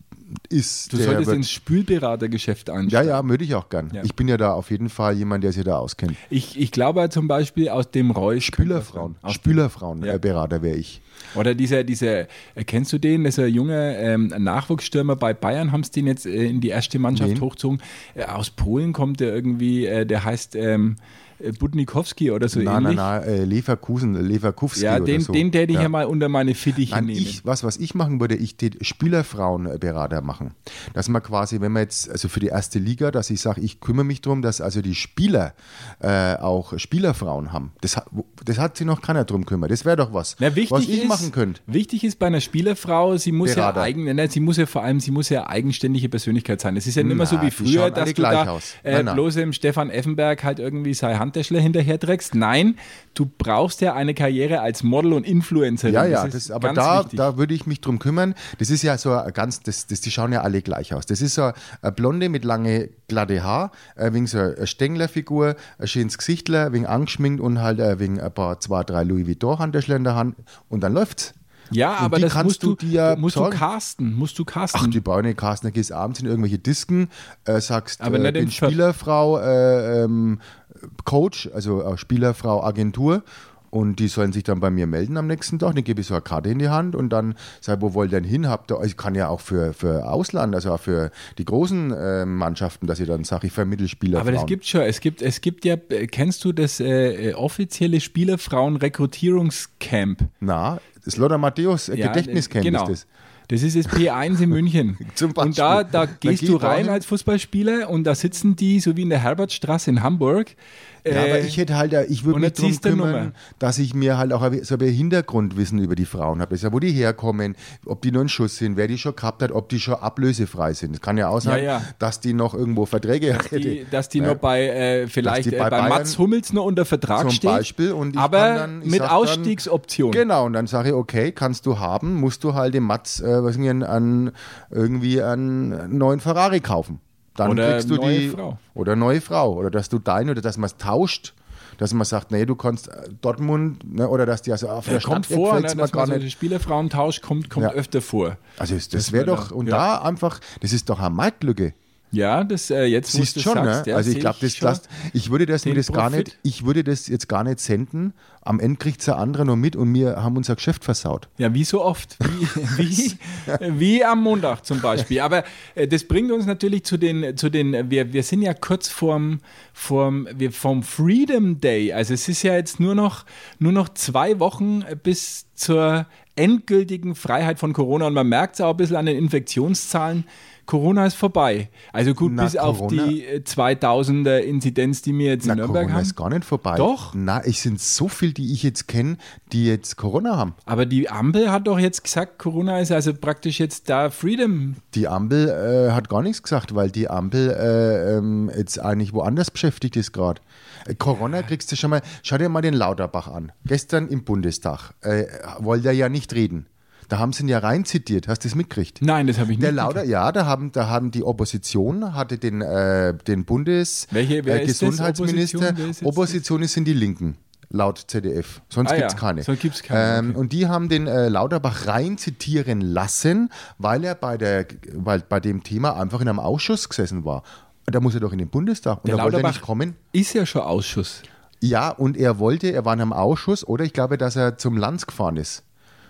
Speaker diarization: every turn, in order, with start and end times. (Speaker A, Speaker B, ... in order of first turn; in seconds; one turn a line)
Speaker A: 0.5-1.5
Speaker B: 0.9-3.2
Speaker A: 2.9-6.2
Speaker B: 6.3-10.2
Speaker A: 8.4-11.0
Speaker B: 11.3-23.1
Speaker A: 17.1-17.5
Speaker A: 22.5-25.9
Speaker B: 24.8-27.4
Speaker A: 26.9-41.6
Speaker B: 40.4-57.2
Speaker A: 43.4-43.9
Speaker A: 47.0-49.2
Speaker A: 55.9-71.3
Speaker B: 71.7-75.0
Speaker A: 72.0-73.6
Speaker A: 74.7-94.6
Speaker B: 78.0-78.8
Speaker B: 94.2-100.3
Speaker A: 100.4-103.0
Speaker B: 101.9-103.0
Speaker B: 103.5-111.6
Speaker A: 105.0-107.0
Speaker A: 111.1-124.4
Speaker B: 112.3-113.3
Speaker B: 121.4-121.9
Speaker B: 123.3-130.2
Speaker A: 125.2-126.2
Speaker A: 127.2-129.6
Speaker A: 130.1-146.3
Speaker B: 137.4-138.6
Speaker B: 144.9-148.4
Speaker A: 148.6-151.8
Speaker B: 148.9-149.9
Speaker B: 152.1-154.8
Speaker A: 153.1-161.3
Speaker B: 155.6-156.3
Speaker B: 161.4-186.1
Speaker A: 162.8-163.6
Speaker A: 182.2-183.2
Speaker A: 185.4-190.6
Speaker B: 186.8-187.2
Speaker B: 190.7-194.8
Speaker A: 194.9-209.0
Speaker B: 209.0-210.0
Speaker A: 209.6-230.0
Speaker B: 214.1-216.4
Speaker B: 218.8-220.4
Speaker B: 229.0-231.2
Speaker A: 231.6-235.6